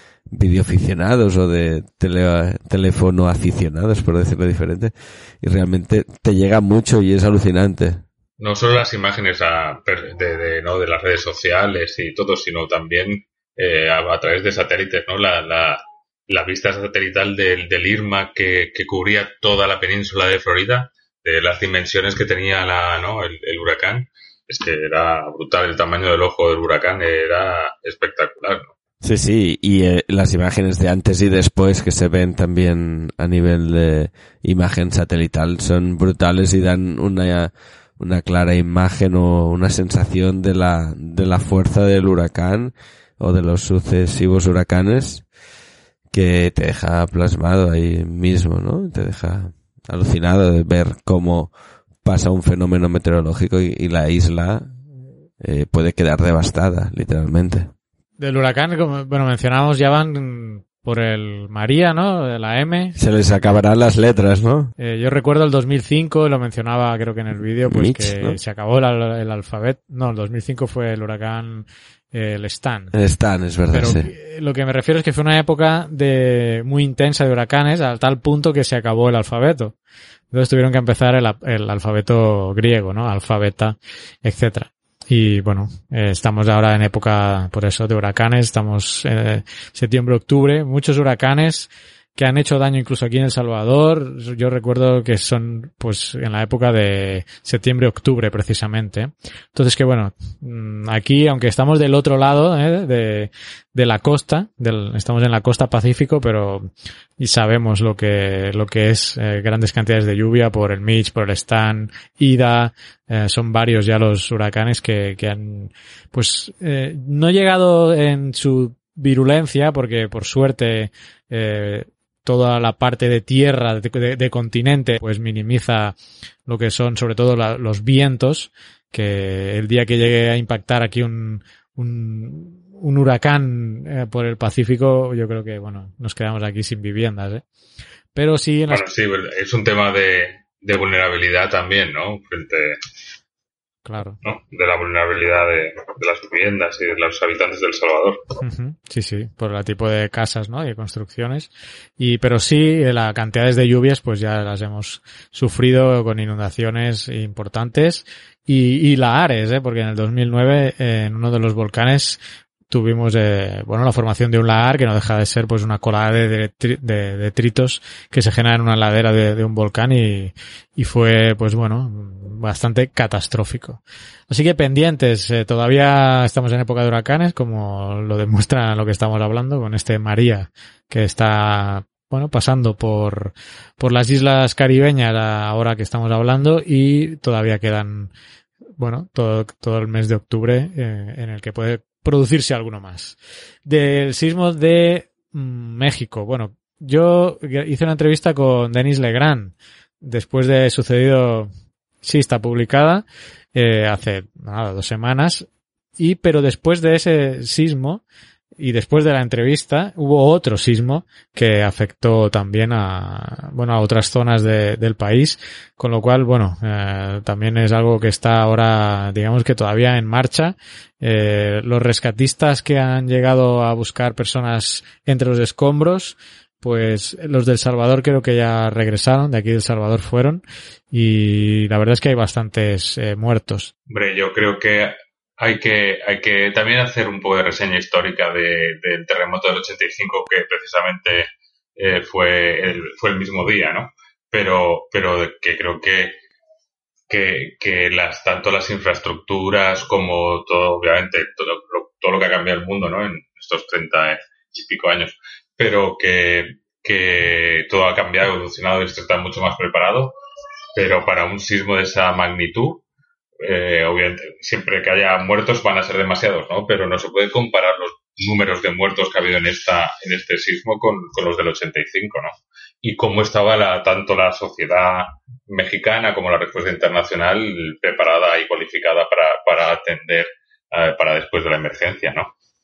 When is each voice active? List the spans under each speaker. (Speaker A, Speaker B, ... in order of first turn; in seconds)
Speaker A: 0.3-8.0, 29.0-45.2, 46.1-51.5, 52.0-54.7, 55.4-57.7, 63.0-64.7, 67.7-68.4, 72.9-74.1
Speaker B: 8.4-28.7, 138.7-142.8, 144.2-148.2, 233.9-246.2, 247.1-260.2, 260.8-262.8, 263.4-282.3
Speaker C: 58.2-63.0, 64.8-73.0, 73.7-79.8, 80.3-126.0, 126.5-137.4, 138.2-138.8, 143.8-144.2, 148.4-188.1, 188.8-201.5, 202.0-205.5, 206.0-208.0, 208.6-233.7